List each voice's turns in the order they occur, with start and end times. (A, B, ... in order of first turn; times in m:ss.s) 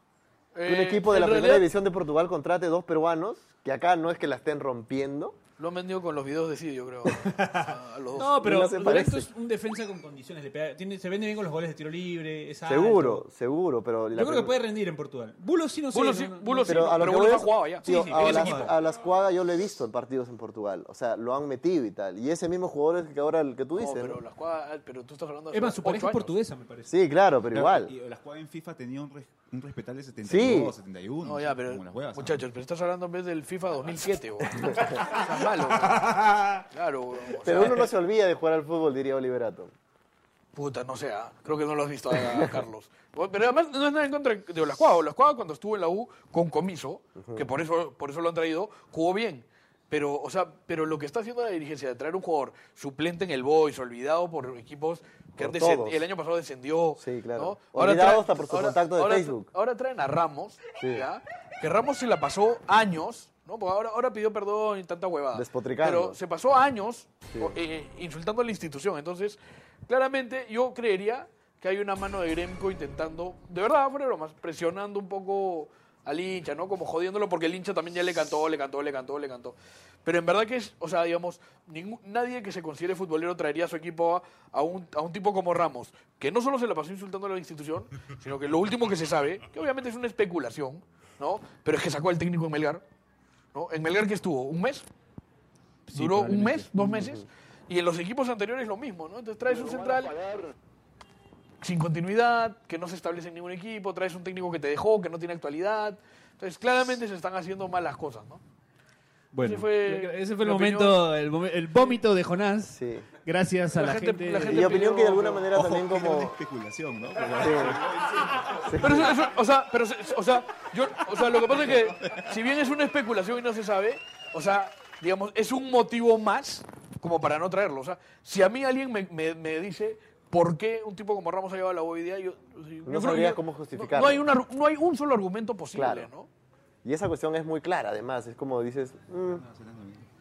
0:00.6-0:01.7 A
0:00.6-0:05.4 B
0:05.6-0:08.4 A
0:07.2-0:13.2 C
0:08.4-0:09.3 B
0:12.7-0:14.6 B
0:14.1-0:17.3 C
0:15.9-0:18.7 A
0:16.6-0:24.2 B
0:17.8-0:18.7 C
0:23.8-0:26.3 A
0:25.5-0:26.9 C
0:26.9-0:27.9 B
0:27.5-0:32.4 D
0:30.2-0:30.7 B
0:31.2-0:36.1 A
0:35.8-0:36.6 C
0:36.7-0:37.9 A
0:37.4-0:39.7 B
0:40.6-1:32.8 A
0:47.2-0:47.5 B
0:55.4-0:56.0 B
0:57.0-0:59.5 B
1:00.8-1:01.1 B
1:05.3-1:06.2 B
1:33.5-1:34.9 A
1:35.9-1:36.8 C
1:35.9-1:40.2 A
1:41.6-1:48.4 A
1:49.3-1:54.8 C
1:49.4-1:51.1 A
1:52.7-1:53.1 B
1:53.8-1:55.5 A
1:54.5-1:56.4 B
1:55.5-1:59.1 D
1:57.3-1:57.8 B
1:58.7-1:59.1 B
1:58.8-2:16.3 A
2:12.8-2:14.2 B
2:15.7-2:16.1 B
2:16.8-2:19.4 B
2:19.3-2:20.1 D